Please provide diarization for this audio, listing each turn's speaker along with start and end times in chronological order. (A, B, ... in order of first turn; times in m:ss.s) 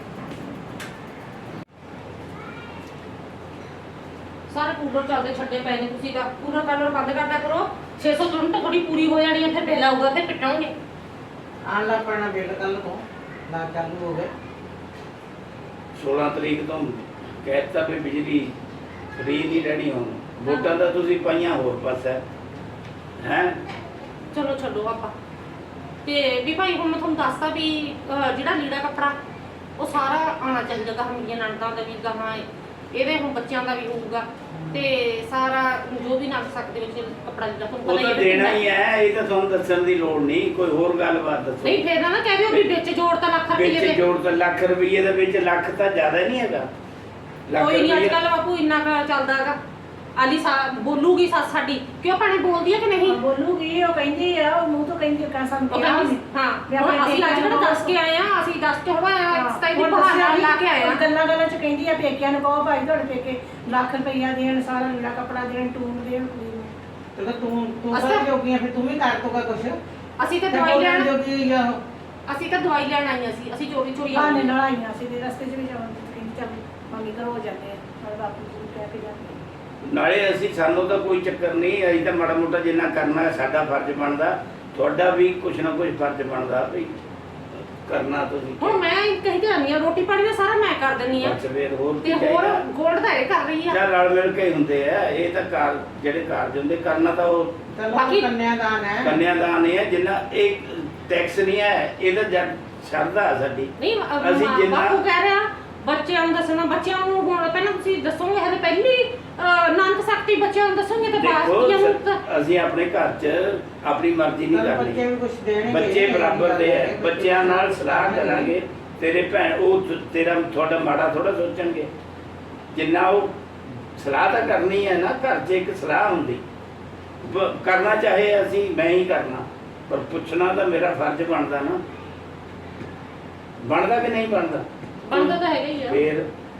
0:04.5-0:10.7 A
0:11.6-0:14.3 B
0:16.0-0:18.5 C
0:19.2-0:22.2 C
0:23.2-0:23.6 C
0:24.3-0:25.1 A
0:26.0-0:29.2 A
0:29.8-0:38.6 A
0:34.5-0:34.8 B
0:37.8-0:41.8 C
0:41.6-0:44.0 A
0:43.5-0:46.7 C
0:47.5-0:48.2 C
0:47.5-0:49.6 A
0:50.2-0:53.2 A
0:53.0-0:57.9 D
0:55.7-1:01.0 A
0:59.3-1:06.7 D
1:07.2-1:09.8 B
1:07.9-1:08.2 A
1:10.2-1:11.1 A
1:10.5-1:11.8 B
1:12.3-1:14.5 A
1:14.1-1:19.4 D
1:19.8-1:26.9 C
1:27.8-1:28.8 C
1:28.6-1:31.4 A
1:31.2-1:32.6 C
1:32.0-1:33.8 A
1:33.7-1:37.6 C
1:37.7-1:39.2 B
1:37.9-1:38.3 A
1:39.0-1:45.0 C
1:43.8-1:52.2 A
1:51.1-1:55.0 C
1:54.5-1:58.5 B
1:55.6-2:01.9 C
2:02.7-2:03.3 C
2:04.0-2:06.4 C
2:07.2-2:11.8 C
2:13.6-2:16.3 C
2:15.0-2:16.0 A